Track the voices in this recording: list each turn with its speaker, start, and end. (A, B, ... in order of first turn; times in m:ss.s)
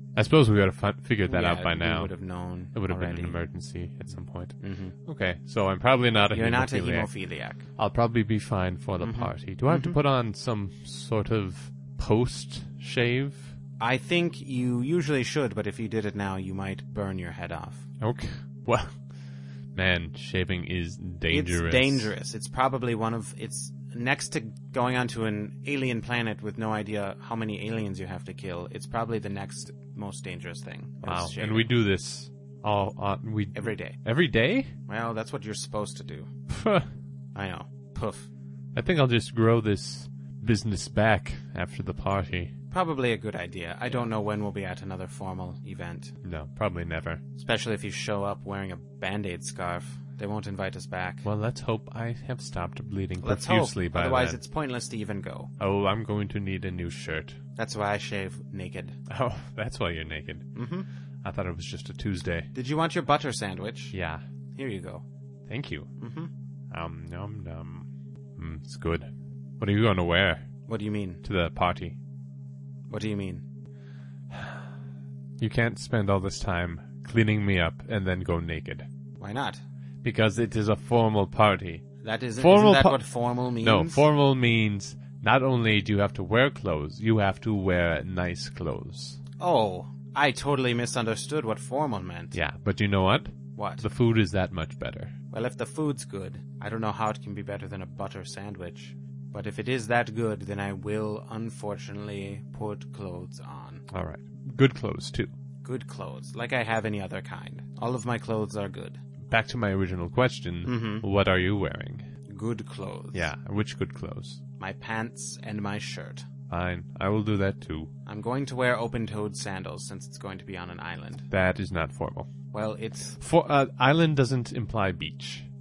0:00.2-0:02.1 A
0:01.3-0:03.4 B
0:02.7-0:07.1 A
0:04.6-0:05.0 B
0:06.3-0:07.7 B
0:07.8-0:13.5 A
0:09.0-0:10.0 B
0:13.8-0:17.8 B
0:18.0-0:19.0 A
0:19.8-0:22.1 A
0:21.3-0:31.7 B
0:31.0-0:34.7 A
0:33.6-0:34.0 B
0:34.9-0:36.3 B
0:36.5-0:36.9 A
0:37.4-0:38.3 B
0:38.7-0:42.5 A
0:42.7-0:46.2 B
0:46.2-0:47.2 A
0:47.4-0:51.3 B
0:51.2-0:54.4 A
0:53.2-0:55.5 B
0:55.6-0:57.4 A
0:57.6-0:59.0 B
0:59.1-1:00.5 A
1:00.6-1:00.9 B
1:01.2-1:02.5 A
1:02.5-1:04.0 B
1:03.9-1:04.2 A
1:04.6-1:05.0 B
1:05.5-1:05.9 A
1:06.0-1:06.3 B
1:06.7-1:10.5 A
1:10.7-1:11.2 B
1:11.2-1:12.0 A
1:12.9-1:13.4 B
1:15.4-1:18.9 A
1:19.2-1:19.6 B
1:20.0-1:21.8 A
1:22.0-1:24.1 B
1:22.4-1:23.1 A
1:23.6-1:29.2 A
1:29.4-1:32.4 B
1:32.3-1:35.1 A
1:33.6-1:33.9 B
1:35.3-1:43.8 B
1:43.9-1:45.3 A
1:45.6-1:49.0 B
1:49.3-1:52.1 A
1:50.6-1:51.1 B
1:52.3-1:53.3 B
1:53.1-1:54.4 A
1:54.6-1:56.3 B
1:56.5-1:57.9 A
1:58.1-2:01.3 B
2:01.3-2:02.3 A
2:02.5-2:03.2 B
2:03.2-2:05.5 A